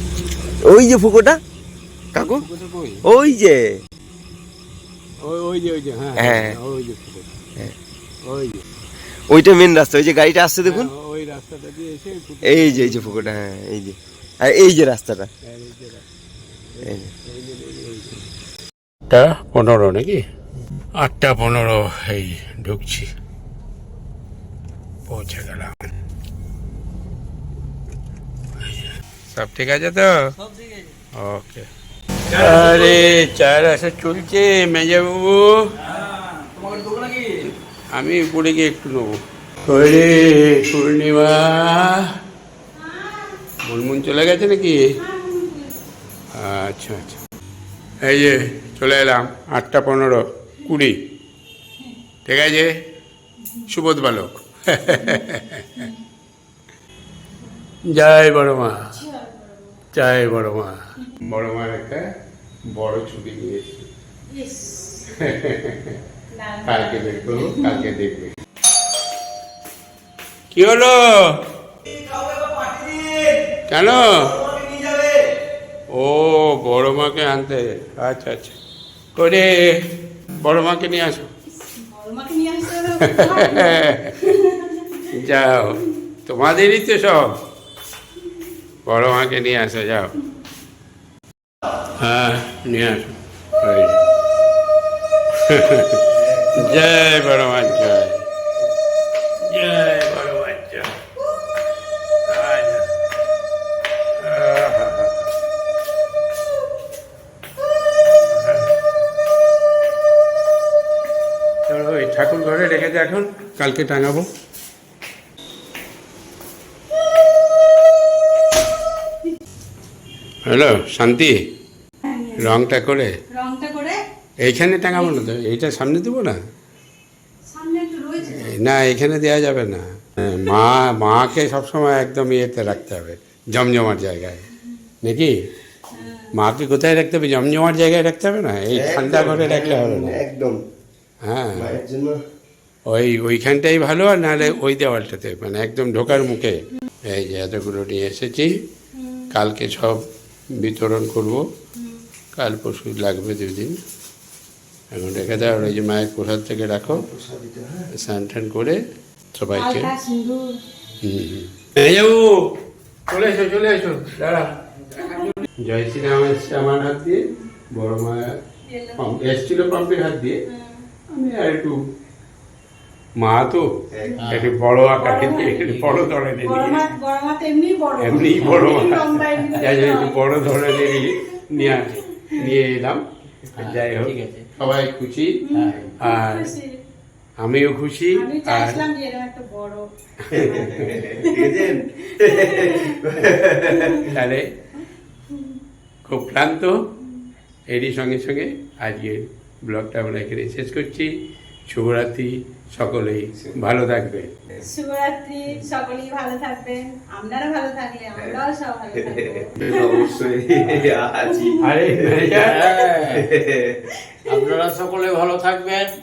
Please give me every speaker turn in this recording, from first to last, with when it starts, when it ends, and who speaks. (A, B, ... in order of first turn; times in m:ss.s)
0:00.6-0:01.4 A
0:02.1-0:02.5 A
0:02.2-0:03.0 B
0:03.0-0:03.8 A
0:05.2-0:07.4 B
0:06.2-0:06.6 A
0:08.2-0:08.6 B
0:09.3-0:10.9 A
0:10.6-0:13.4 B
0:12.4-0:15.3 A
0:15.4-0:16.0 B
0:16.8-0:18.2 B
0:16.8-0:17.1 A
0:19.1-0:20.2 B
0:20.9-0:23.1 B
0:25.1-0:25.9 B
0:28.6-0:30.2 B
0:31.2-0:31.7 B
0:32.3-0:35.7 B
0:32.3-0:33.0 C
0:35.8-0:37.4 C
0:37.9-0:42.1 B
0:42.7-0:43.4 D
0:43.6-0:44.8 B
0:45.0-0:45.9 D
0:46.3-0:47.2 B
0:48.0-0:51.0 B
0:52.2-0:52.7 B
0:53.4-0:53.7 D
0:53.7-0:55.8 B
0:54.9-0:56.0 D
0:57.9-0:58.9 B
0:58.8-0:59.8 D
0:59.9-1:02.0 B
1:02.7-1:03.9 B
1:04.3-1:05.1 D
1:05.1-1:06.0 B
1:06.3-1:07.9 D
1:06.6-1:08.3 B
1:10.5-1:11.4 B
1:11.9-1:15.3 A
1:13.7-1:14.4 B
1:15.9-1:18.6 B
1:19.1-1:19.8 B
1:20.4-1:21.3 B
1:21.6-1:25.1 D
1:23.0-1:24.2 B
1:25.1-1:27.4 B
1:28.8-1:30.1 B
1:32.0-1:34.0 B
1:35.4-1:38.2 B
1:36.2-1:36.9 A
1:39.5-1:40.9 B
1:42.3-1:42.9 B
1:44.2-1:45.2 B
1:48.3-1:48.6 B
1:51.7-1:54.3 B
2:00.4-2:01.4 B
2:02.0-2:02.6 D
2:02.4-2:03.2 B
2:03.3-2:04.0 D
2:04.4-2:06.4 B
2:04.9-2:05.2 D
2:07.5-2:08.6 D
2:08.3-2:14.4 B
2:15.0-2:15.3 B
2:15.9-2:16.3 D
2:16.3-2:20.2 B
2:18.7-2:20.6 A
2:21.2-2:21.8 B
2:21.5-2:22.2 A
2:22.9-2:28.6 B
2:28.9-2:29.3 D
2:29.3-2:31.4 B
2:32.3-2:33.8 B
2:34.9-2:37.0 B
2:35.3-2:35.7 A
2:36.8-2:37.9 A
2:38.0-2:38.8 B
2:39.3-2:39.9 B
2:39.5-2:40.6 D
2:41.0-2:42.4 B
2:43.1-2:44.5 B
2:45.0-2:45.4 D
2:45.6-2:48.4 B
2:48.6-2:49.0 D
2:49.0-2:50.4 B
2:50.5-2:50.8 D
2:51.1-2:51.8 B
2:53.2-2:53.7 B
2:54.1-2:54.5 C
2:54.3-2:56.8 B
2:55.0-2:55.7 D
2:55.6-2:56.1 C
2:56.4-3:02.3 D
2:58.0-3:03.0 B
2:58.1-2:58.7 C
3:03.5-3:04.5 C
3:03.6-3:05.4 B
3:05.4-3:06.8 D
3:05.5-3:06.0 C
3:06.0-3:06.5 B
3:07.4-3:08.8 B
3:08.1-3:09.8 D
3:10.3-3:11.1 B
3:10.3-3:14.2 A
3:10.4-3:13.0 D
3:13.7-3:14.1 D
3:14.0-3:14.5 B
3:15.3-3:15.6 D
3:16.0-3:16.8 B
3:17.7-3:21.1 B
3:21.7-3:24.3 B
3:24.6-3:30.2 D
3:28.2-3:28.4 A
3:28.9-3:32.3 A
3:31.3-3:31.6 D
3:31.6-3:32.7 B
3:32.3-3:33.3 C
3:32.9-3:33.8 A
3:34.3-3:35.9 C